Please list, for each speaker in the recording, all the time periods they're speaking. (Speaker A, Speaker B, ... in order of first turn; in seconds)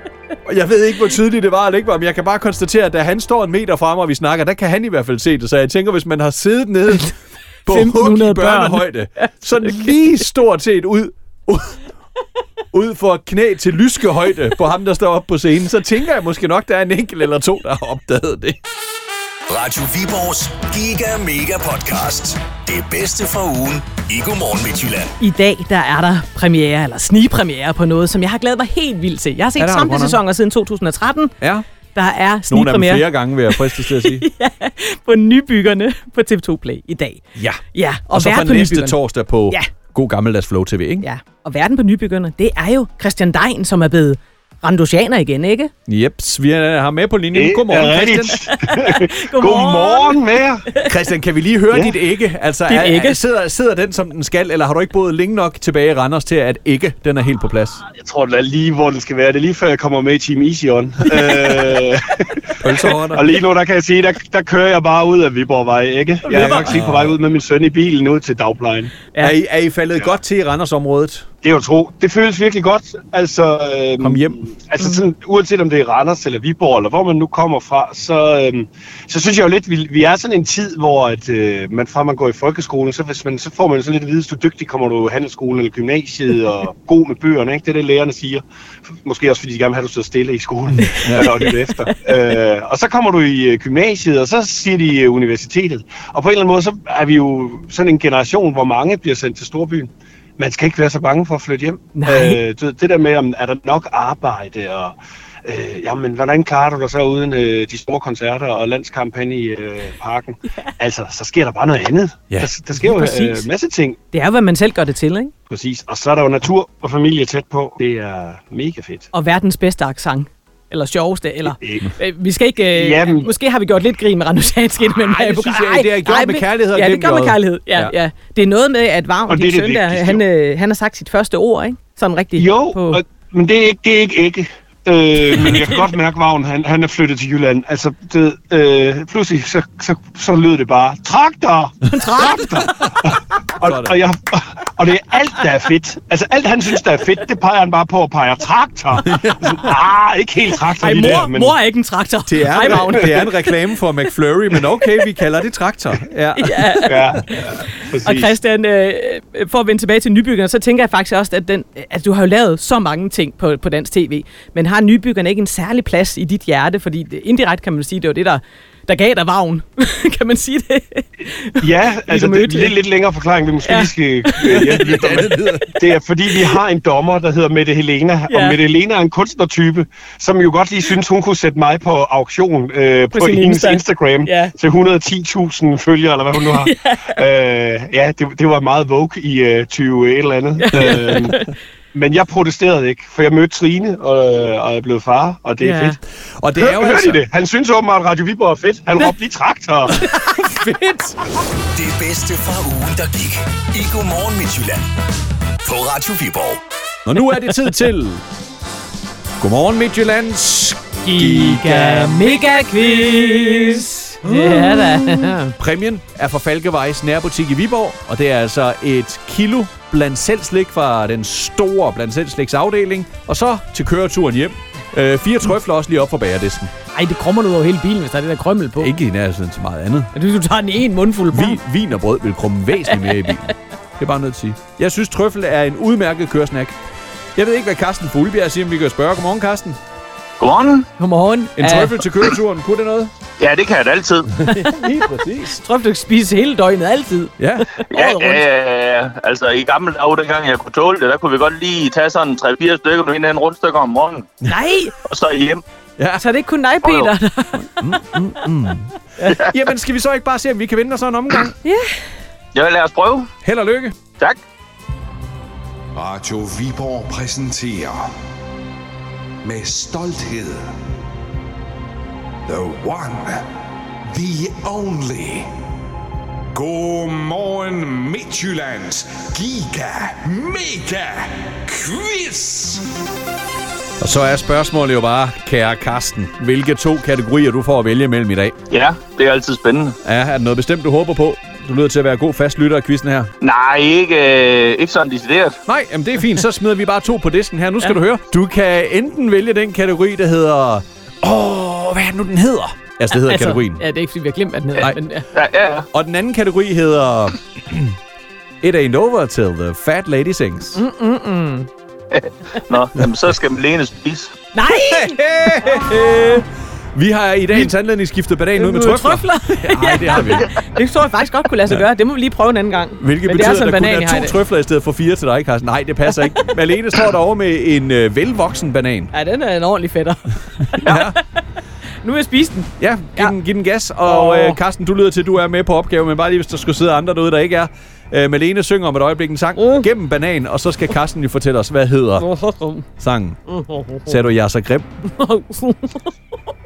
Speaker A: 0.5-11.8, 12.7-18.6, 29.6-30.2, 31.4-31.6, 32.5-34.3, 37.4-41.0, 45.9-48.5, 50.8-57.8, 61.2-61.7, 62.6-63.3, 66.3-67.2, 69.2-71.3, 74.0-74.4, 90.9-91.4, 125.0-127.9, 142.6-143.1, 143.6-144.0, 149.0-149.7, 150.9-151.3, 152.3-157.2, 174.4-175.9, 196.4-197.2, 200.0-201.2, 207.1-208.2, 209.4-212.3, 214.3-226.7, 228.8-230.1, 231.3-236.8, 237.4-239.8, 241.6-243.1, 244.4-245.6, 247.4-247.7, 256.0-256.2, 257.6-261.6, 263.4-264.0, 284.0-288.6, 290.0-293.3, 295.7-303.8, 305.9-308.0, 308.6-310.8, 314.9-320.5, 323.0-329.1, 330.8-331.2, 332.8-342.3, 343.0-343.4, 344.1-344.9
Speaker B: 7.7-9.9, 25.2-31.4, 31.9-39.0, 41.0-45.7, 48.5-50.9, 52.7-53.2, 66.2-66.8, 91.5-92.0, 102.0-102.4, 112.8-113.5, 114.1-115.3, 119.1-133.0, 135.3-135.8, 141.9-143.1, 150.8-153.6, 156.4-172.8, 173.7-174.8, 178.3-178.6, 183.1-184.5, 186.3-187.2, 190.6-191.6, 195.6-196.0, 211.0-215.5, 226.9-228.9, 230.1-231.6, 233.1-233.3, 241.0-242.0, 244.5-244.8, 245.5-248.4, 254.5-254.9, 256.2-258.4, 261.6-262.0, 303.1-305.3, 310.8-311.7, 314.5-316.0, 318.6-324.4, 329.1-331.4, 332.0-333.4, 334.1-334.6, 339.6-339.9, 342.2-342.9, 343.5-344.1, 345.1-346.1
Speaker C: 19.5-25.1, 201.7-204.9, 205.6-206.6
Speaker D: 47.3-50.7, 51.7-52.0, 57.9-68.9, 71.4-88.4, 89.0-114.0, 115.5-119.1, 121.5-121.9, 122.7-123.3, 129.3-130.2, 132.3-151.6, 152.6-153.3, 156.8-158.3, 171.6-196.0, 196.6-200.0
Speaker E: 240.4-240.9, 243.4-244.3, 247.9-254.3, 255.1-255.6, 256.8-257.1, 262.5-263.3, 288.7-289.9, 293.4-295.6, 305.3-305.9, 312.1-314.4
Speaker F: 266.0-268.1, 269.4-270.6, 272.5-273.4, 274.1-275.5, 276.5-282.8